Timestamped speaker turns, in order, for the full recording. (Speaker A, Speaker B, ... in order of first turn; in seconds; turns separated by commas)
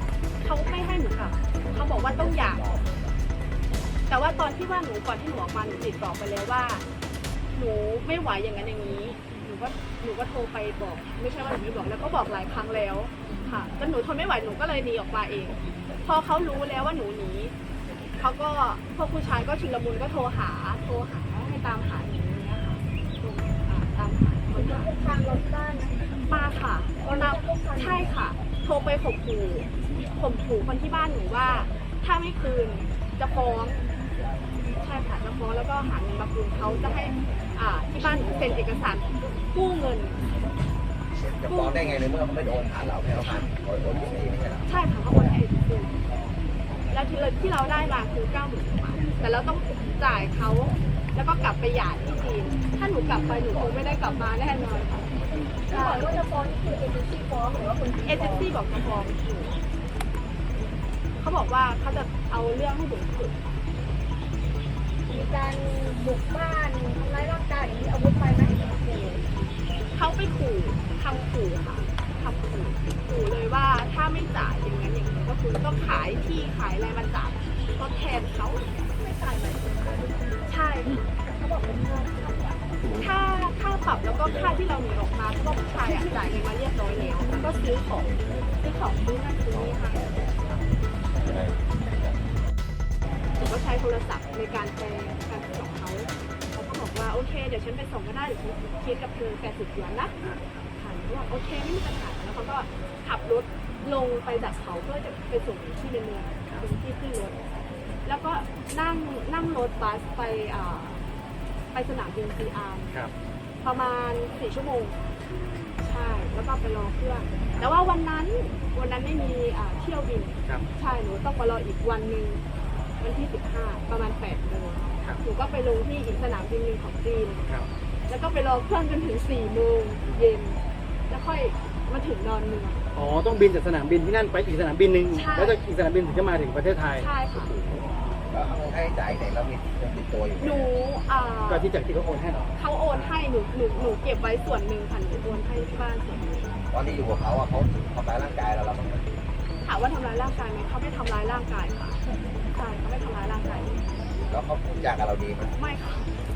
Speaker A: 0.4-2.7, Speaker A: 4.1-6.8, Speaker A: 7.5-17.5, Speaker A: 18.2-24.9, Speaker B: 24.6-25.9, Speaker A: 26.3-33.8, Speaker B: 27.0-28.1, Speaker A: 34.8-40.2, Speaker C: 41.2-44.7, Speaker A: 41.5-41.8, Speaker A: 44.7-45.9, Speaker A: 46.9-55.1, Speaker B: 55.7-58.5, Speaker A: 55.7-56.1, Speaker A: 58.1-59.6, Speaker A: 61.2-63.4, Speaker B: 65.1-69.2, Speaker A: 69.9-78.9, Speaker B: 79.0-80.0, Speaker A: 80.5-81.0, Speaker B: 81.2-82.6, Speaker A: 83.0-90.2, Speaker A: 93.4-100.1, Speaker A: 100.8-107.5, Speaker A: 108.0-111.0, Speaker A: 111.7-113.0, Speaker A: 113.6-115.0, Speaker D: 115.3-115.8, Speaker A: 115.8-122.4, Speaker A: 123.0-127.4, Speaker A: 128.1-132.8, Speaker D: 132.9-137.9, Speaker A: 135.1-135.6, Speaker A: 137.0-137.5, Speaker C: 138.3-140.7, Speaker A: 140.4-141.7, Speaker D: 141.5-142.5, Speaker A: 142.6-146.5, Speaker C: 146.7-149.1, Speaker A: 149.6-153.8, Speaker C: 154.3-155.5, Speaker A: 155.5-156.1